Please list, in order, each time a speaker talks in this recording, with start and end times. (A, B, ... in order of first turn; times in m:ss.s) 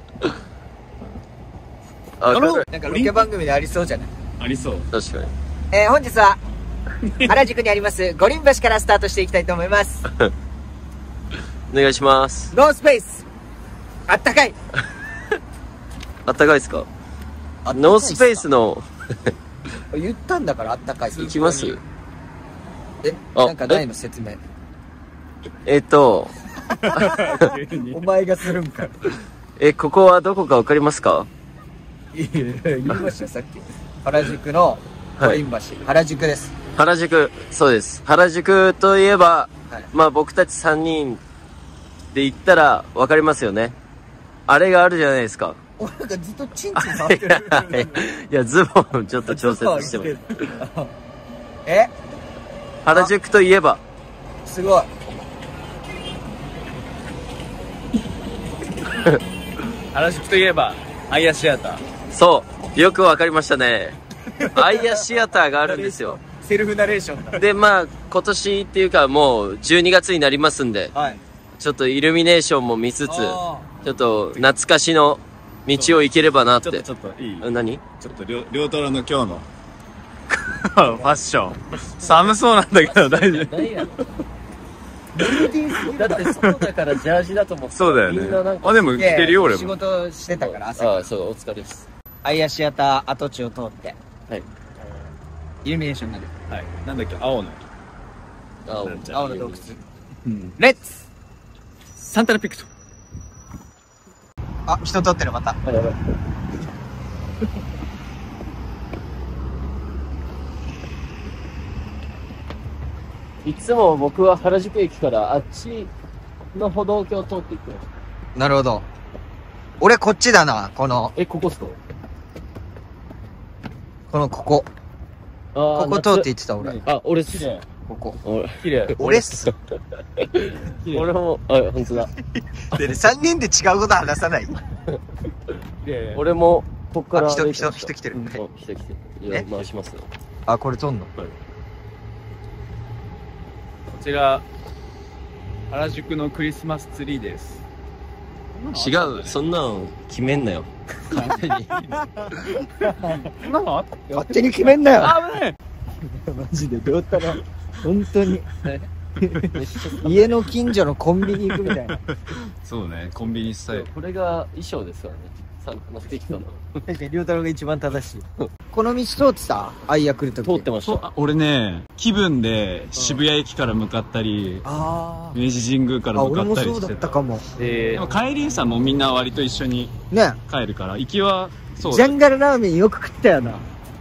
0:02.2-0:02.7 A
0:02.3-0:04.1 B
0:02.8-0:03.3 C
0:04.4-0:04.9 C
0:04.9-0:05.3 A
0:05.7-0:06.4 B
0:07.0-0:07.4 C
0:07.2-0:10.0 B
0:11.7-0:12.5 A
0:12.5-0:13.3 B
0:14.1-0:14.6 B
0:16.2-0:16.9 A
0:17.6-0:18.5 B
0:17.7-0:19.3 A
0:19.9-0:21.5 B
0:21.1-0:21.8 C
0:21.1-0:21.8 A
0:23.0-0:24.4 B
0:23.4-0:23.8 A
0:25.6-0:26.4 A
0:26.8-0:28.0 C
0:26.9-0:28.9 B
0:26.9-0:27.5 A
0:29.6-0:31.3 A
0:32.1-0:36.5 B
0:32.9-0:33.1 A
0:35.2-0:35.4 A
0:36.8-0:41.2 A
0:42.1-0:43.8 A
0:44.5-0:45.6 A
0:45.8-0:47.9 B
0:46.8-0:50.6 A
0:49.3-0:50.9 B
0:51.6-0:51.9 B
0:52.8-0:53.8 A
0:54.4-0:54.9 B
0:59.9-1:01.8 C
1:02.1-1:04.0 A
1:04.4-1:05.0 B
1:04.5-1:06.2 A
1:05.6-1:07.4 B
1:07.3-1:10.9 A
1:11.6-1:16.9 A
1:13.1-1:13.7 B
1:13.8-1:14.5 C
1:15.7-1:16.0 C
1:16.6-1:17.5 C
1:17.4-1:17.8 A
1:18.0-1:19.5 C
1:20.3-1:24.0 C
1:22.0-1:24.2 A
1:25.2-1:26.4 B
1:25.2-1:29.2 A
1:26.3-1:26.6 C
1:27.8-1:29.8 C
1:29.0-1:31.1 B
1:30.3-1:31.9 A
1:32.2-1:34.0 B
1:35.6-1:36.3 B
1:36.5-1:37.6 C
1:38.7-1:39.7 A
1:38.8-1:39.4 C
1:39.1-1:39.8 B
1:40.2-1:40.6 C
1:40.6-1:41.1 B
1:42.0-1:42.7 C
1:44.7-1:45.6 B
1:45.6-1:46.0 A
1:53.4-1:55.9 A
1:56.5-1:57.8 A
1:58.4-1:58.9 B
1:59.8-2:01.1 B
2:01.2-2:01.8 A
2:04.1-2:04.7 B
2:05.5-2:06.3 A
2:05.8-2:06.8 B
2:06.6-2:07.6 C
2:06.8-2:07.6 A
2:07.9-2:08.2 B
2:08.2-2:09.6 A
2:09.0-2:09.6 B
2:10.2-2:12.1 A
2:10.7-2:11.1 C
2:12.6-2:14.5 B
2:15.8-2:16.2 C
2:16.1-2:20.1 A
2:17.1-2:18.4 B
2:18.1-2:18.4 C
2:20.5-2:21.1 B
2:23.9-2:24.4 C
2:25.7-2:27.6 C
2:28.5-2:29.4 C
2:28.7-2:31.8 A
2:31.1-2:35.6 C
2:31.2-2:32.1 B
2:32.8-2:33.3 B
2:34.1-2:35.2 B
2:36.0-2:38.5 B
2:39.2-2:39.5 B
2:39.5-2:40.5 A
2:40.0-2:42.0 B
2:41.3-2:43.9 C
2:43.7-2:46.8 A
2:46.9-2:50.7 B
2:50.5-2:51.1 A
2:50.8-2:54.7 C
2:53.0-2:53.2 B
2:54.6-2:55.4 B
2:55.3-2:57.1 C
2:56.1-2:57.4 B
2:57.6-2:58.1 A
2:57.9-2:59.9 C
3:00.1-3:00.4 B
3:00.5-3:02.2 C
3:01.9-3:03.7 B